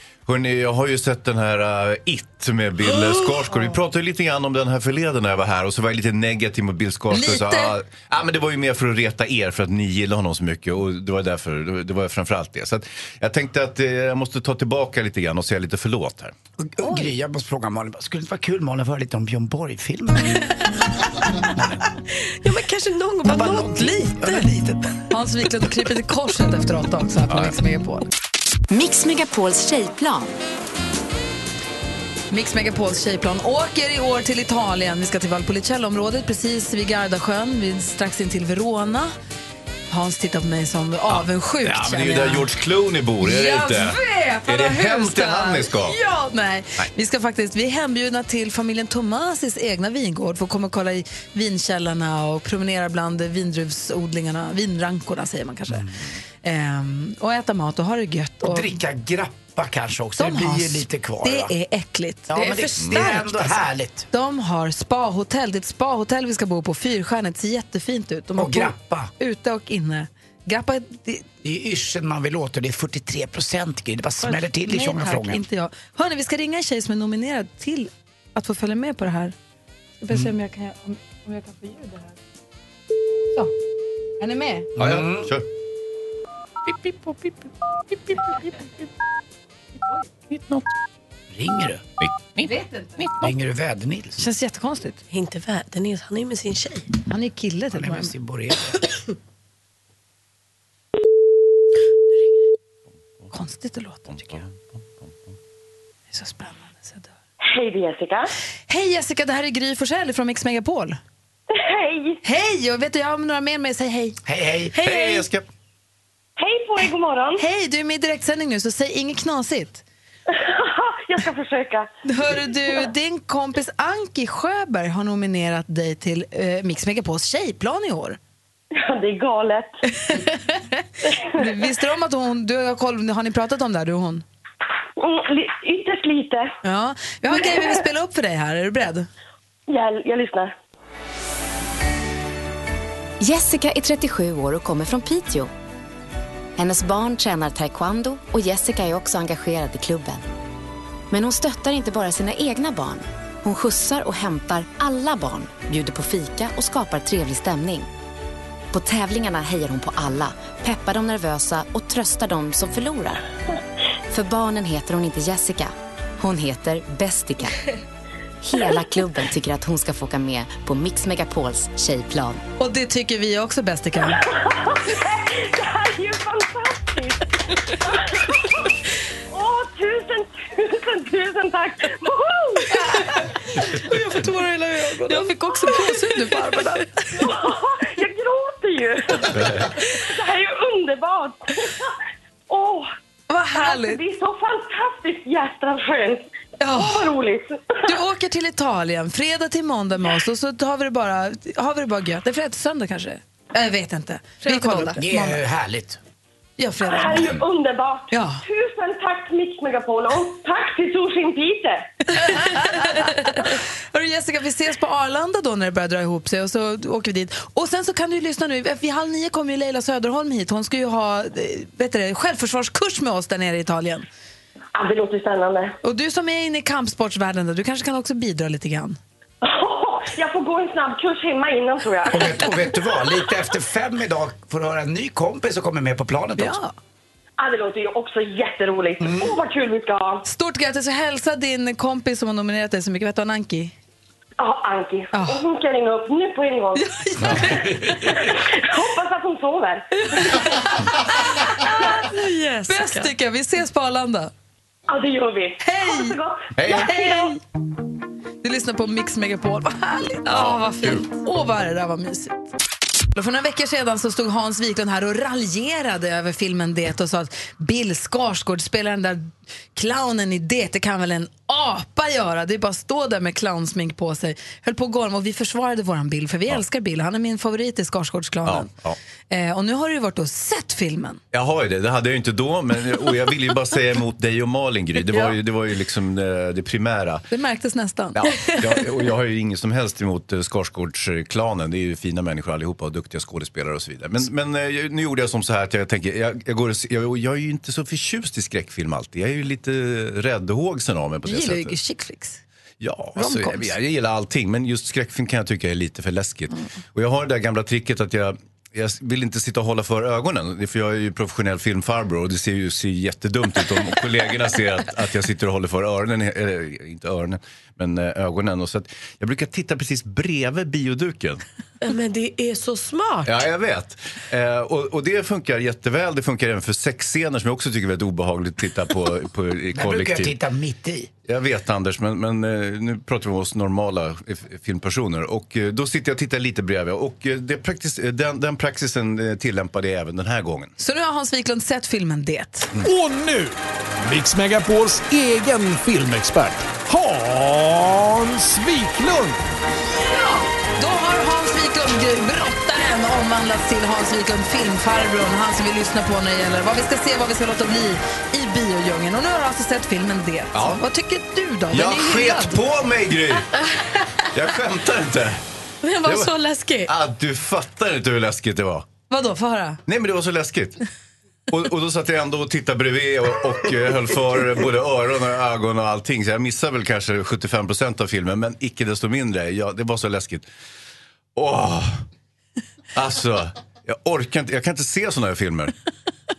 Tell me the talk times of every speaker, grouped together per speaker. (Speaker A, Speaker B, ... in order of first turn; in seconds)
Speaker A: 0.3-16.3, 41.1-46.0, 84.8-85.5, 90.3-90.7, 92.0-92.5, 104.2-104.5, 114.8-115.5, 189.3-189.7, 256.6-256.9, 260.3-261.0, 278.4-279.0, 281.3-287.2, 288.1-301.8, 302.8-321.4, 323.2-330.4, 331.3-340.7, 360.5-360.8, 361.7-363.7, 364.2-365.4, 366.0-366.3, 366.9-368.9, 369.9-370.8, 371.5-380.5, 381.4-382.1, 382.9-385.7
Speaker B: 7.1-7.8, 16.8-17.1, 25.1-28.1, 32.3-39.1, 39.9-42.5, 43.2-55.9, 56.4-58.7, 60.2-62.6, 64.1-71.3, 74.2-79.3, 80.0-82.2, 84.2-84.7, 92.4-93.1, 94.2-95.0, 97.1-98.1, 103.3-104.5, 106.1-107.1, 108.7-111.0, 112.2-114.2, 117.4-119.8, 122.1-128.2, 129.9-134.2, 136.6-139.1, 172.6-174.2, 185.1-186.9, 193.3-194.0, 196.6-197.1, 197.9-205.4, 206.6-207.4, 208.1-208.4, 212.1-224.1, 225.8-229.0, 236.4-236.7, 240.2-243.8, 245.1-245.4, 246.8-247.9, 250.2-250.7, 251.3-251.8, 252.7-254.3, 255.6-256.2, 256.7-257.4, 258.4-262.5, 263.1-278.7, 279.3-281.2, 287.3-288.2, 301.2-302.4, 303.2-303.7, 340.8-342.8, 350.0-362.6, 369.1-369.8
Speaker C: 16.6-20.4, 21.5-21.8, 23.2-24.9, 55.7-56.0, 58.4-61.5, 62.3-64.1, 68.4-69.1, 71.4-75.4, 84.8-85.3, 91.3-91.8, 93.2-94.2, 97.7-98.8, 114.2-114.8, 205.0-206.0, 232.1-236.6, 239.0-239.3, 329.7-331.1
Speaker D: 22.4-24.4, 62.3-63.6, 95.1-96.9, 114.8-115.2, 183.7-186.6, 204.4-205.0, 252.0-253.1, 260.2-261.0, 321.8-323.4, 365.8-366.9
Speaker E: 28.7-30.3, 143.2-145.5, 146.6-150.2, 151.1-157.9, 158.7-163.2, 164.1-167.6, 168.4-172.4
Speaker F: 107.5-108.3, 111.5-112.2, 116.4-117.4, 120.3-121.9, 122.5-122.8, 128.8-129.8, 135.0-136.5, 137.3-137.7, 139.7-140.5, 174.2-178.7, 179.3-182.7, 187.2-191.9, 192.5-192.9, 193.5-197.8, 206.8-211.9, 224.8-225.8, 229.4-232.6, 237.4-240.2, 244.4-247.4, 248.0-249.9, 254.9-257.4
Speaker G: 342.9-343.5, 344.1-349.3